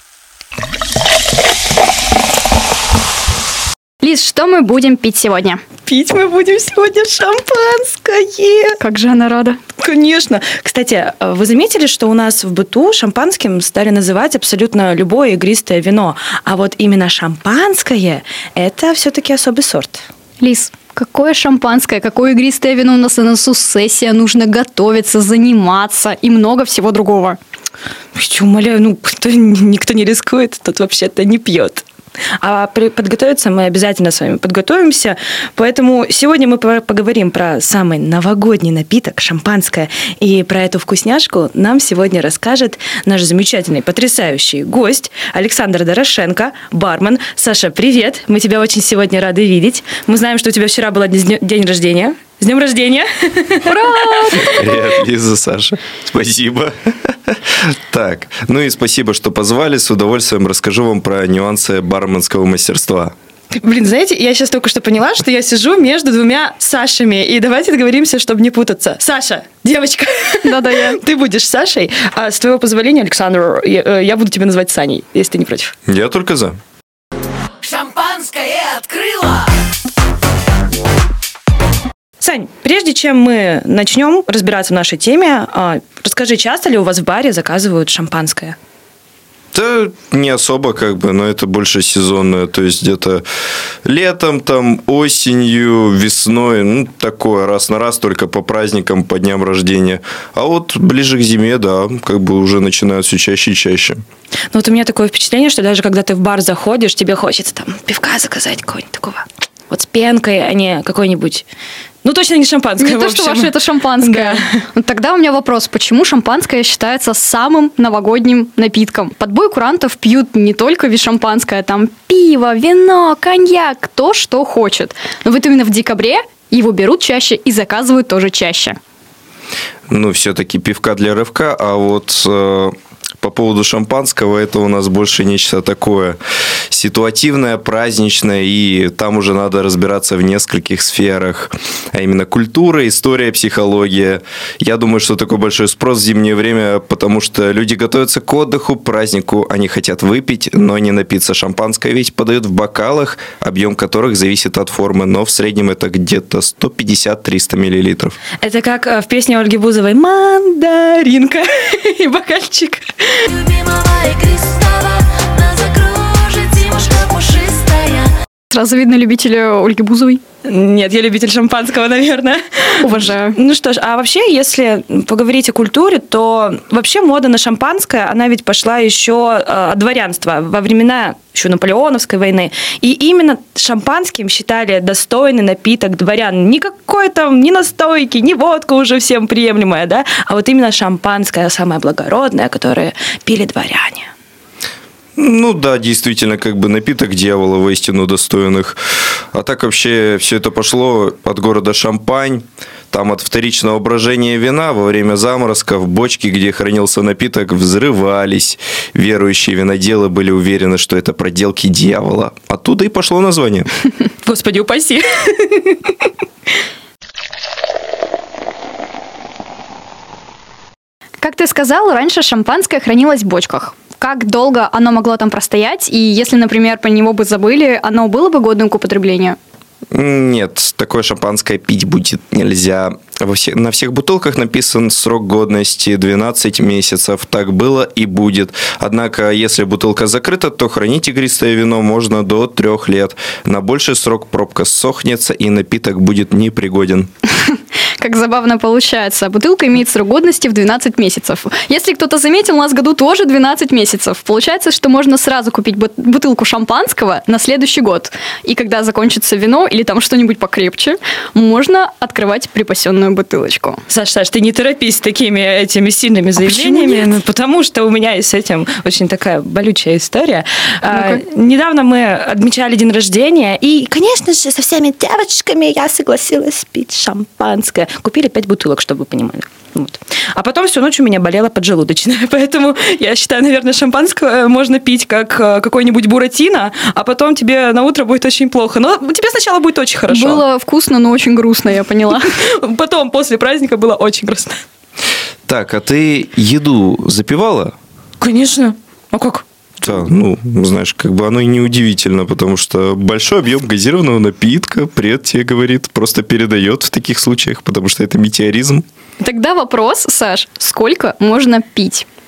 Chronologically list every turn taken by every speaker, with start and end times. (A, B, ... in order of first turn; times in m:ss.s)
0:04.0-0:05.6 A
0:05.9-0:08.8 B
0:08.8-0:09.6 A
0:09.8-0:20.0 B
0:20.4-0:27.4 A
0:28.1-0:31.8 B
0:32.4-0:54.4 B
0:53.6-0:54.9 A
0:54.4-1:03.1 C
1:03.5-1:15.7 B
1:10.4-1:11.0 A
1:15.9-1:16.6 C
1:17.6-1:19.4 B
1:22.2-1:28.6 B
1:29.5-1:33.2 C
1:33.8-1:44.0 C
1:44.5-1:51.4 B
1:52.0-1:54.5 B
1:52.8-2:08.8 A
2:09.9-2:16.2 C
2:16.7-2:38.2 C
2:38.4-2:48.1 B
2:48.5-2:50.2 A
2:50.4-3:14.1 B
2:52.8-2:53.4 A
3:15.2-3:18.8 C
3:19.3-3:33.7 C
3:34.2-3:36.0 B
3:41.2-3:49.4 A
3:49.9-4:07.1 C
4:07.5-4:23.8 A
4:23.9-4:50.4 B
4:26.4-4:27.1 A
4:30.9-4:31.2 A
4:50.1-4:52.3 A
4:52.3-4:54.6 B
4:55.5-4:57.7 C
4:58.2-4:59.4 B
4:59.8-5:08.8 C
5:09.2-5:12.0 A